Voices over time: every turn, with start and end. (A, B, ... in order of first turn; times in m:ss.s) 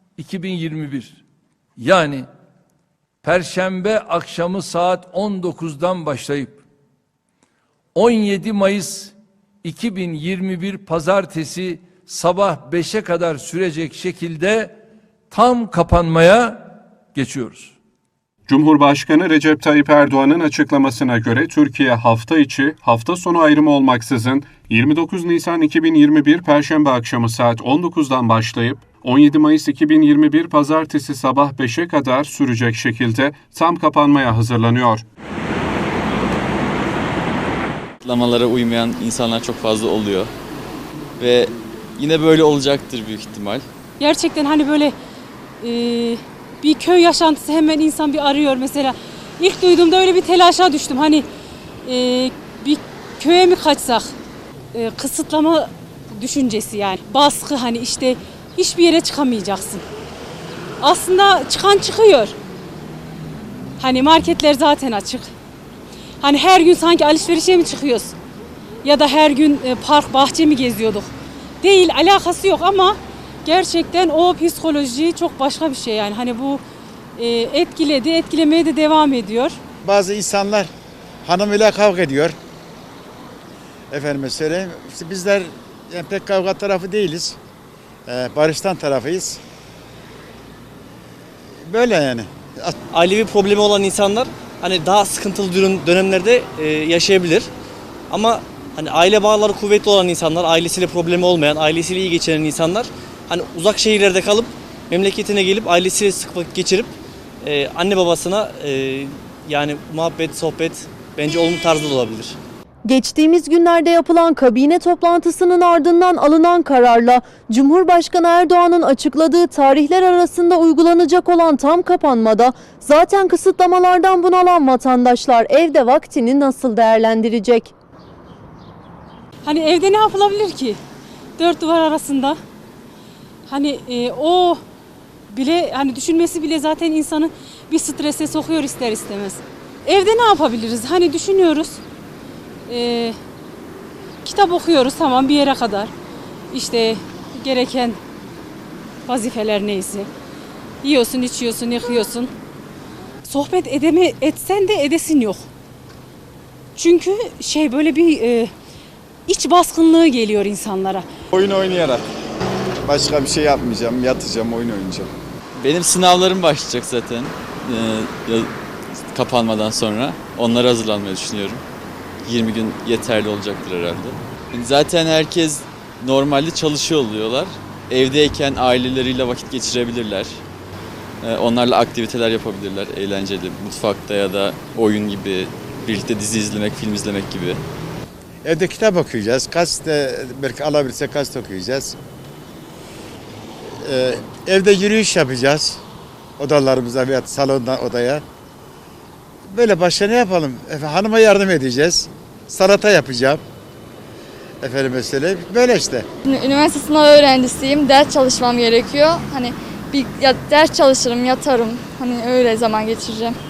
0:00.2-0:01.2 A
0:01.8-0:02.3 A
0:03.2-0:06.6 A
0:07.9-0:09.1 A
0:09.6-0:14.7 A
0:15.3-0:17.7 A
0:18.5-0:35.0 B
0:38.0-0:40.3 C
0:41.2-0:43.6 C
0:44.0-0:44.9 D
0:45.6-0:51.2 D
0:51.8-0:54.1 D
0:54.7-0:59.8 D
1:00.8-1:02.3 D
1:03.8-1:05.3 D
1:06.2-1:08.1 D
1:08.8-1:11.1 D
1:11.6-1:16.6 D
1:17.2-1:19.6 D
1:19.8-1:20.7 E
1:21.2-1:22.4 E
1:23.9-1:27.4 E
1:28.1-1:29.4 E
1:31.6-1:32.7 E
1:32.9-1:37.5 F
1:38.1-1:52.4 F
1:52.9-2:07.7 G
2:09.4-2:10.8 D
2:11.4-2:12.4 D
2:13.5-2:14.6 D
2:15.3-2:21.8 D
2:22.7-2:23.1 D
2:24.2-2:25.9 D
2:26.5-2:28.0 D
2:29.0-2:30.1 D
2:30.8-2:32.3 D
2:33.2-2:35.4 D
2:36.7-2:38.5 D
2:39.3-2:41.0 D
2:41.3-2:42.0 E
2:42.8-2:45.1 E
2:45.6-2:48.5 C
2:49.1-2:51.6 C
2:52.2-3:00.4 C
3:01.2-3:07.6 C
3:08.4-3:12.0 E
3:13.8-3:15.8 E
3:16.4-3:18.2 E
3:19.4-3:23.4 E
3:24.6-3:26.0 E
3:26.2-3:33.4 H